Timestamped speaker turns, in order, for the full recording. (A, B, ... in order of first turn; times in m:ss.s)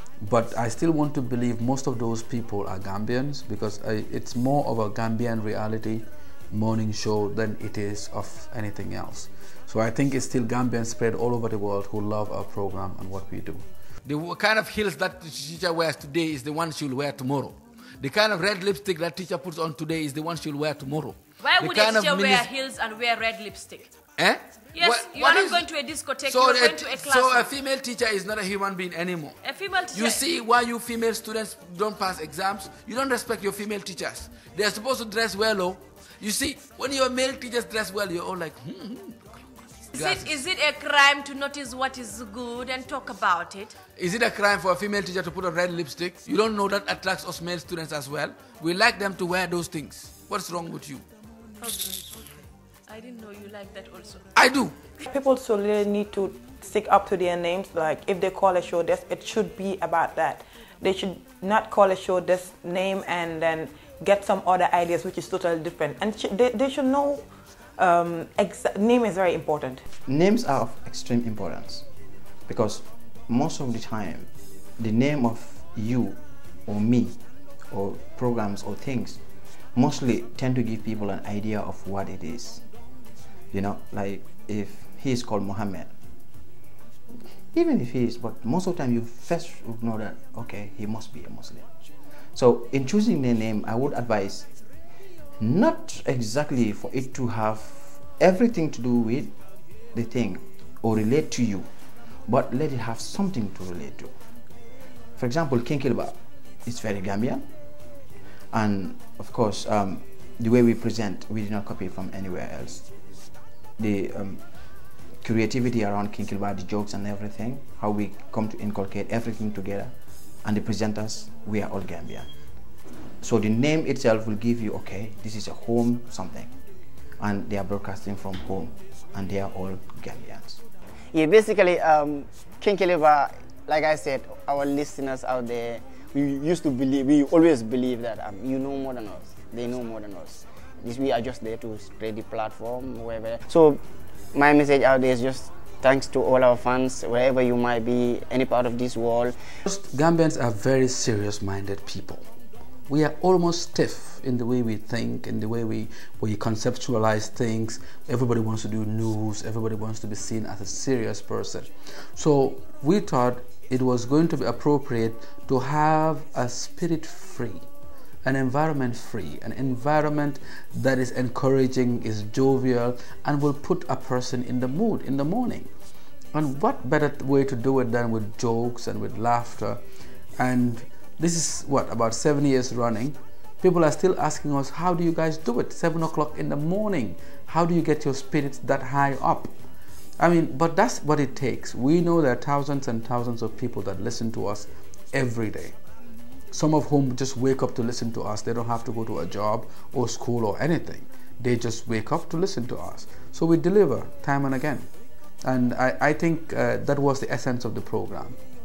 0:00.2-0:13.6 A
0:14.0-0:22.5 B
0:21.4-0:23.9 C
0:24.2-0:25.7 B
0:24.7-0:27.5 C
0:26.2-0:29.4 B
0:29.4-0:30.2 C
0:29.9-0:40.4 B
0:40.0-0:43.8 C
0:44.0-0:51.1 B
0:51.6-0:52.3 C
0:52.9-0:54.3 C
0:54.4-0:54.8 B
0:55.1-1:07.3 D
1:07.8-1:09.8 D
1:10.1-1:11.9 E
1:12.5-1:17.2 E
1:17.7-1:19.2 E
1:19.8-1:22.6 E
1:23.5-1:25.9 E
1:27.5-1:31.7 E
1:32.4-1:34.5 E
1:35.4-1:39.3 E
1:39.9-1:41.7 E
1:42.3-1:44.1 E
1:45.2-1:47.5 E
1:48.5-1:52.9 E
1:53.8-1:54.4 E
1:55.2-1:59.9 E
2:00.4-2:02.3 E
2:03.2-2:06.5 E
2:07.2-2:10.6 E
2:11.1-2:23.8 F
2:24.3-2:29.4 F
2:29.6-2:32.3 A
2:32.9-2:47.7 A
2:48.2-2:55.7 A
2:56.3-2:59.8 A
3:00.4-3:09.5 A
3:10.2-3:15.8 A
3:16.5-3:24.9 A
3:25.4-3:28.4 A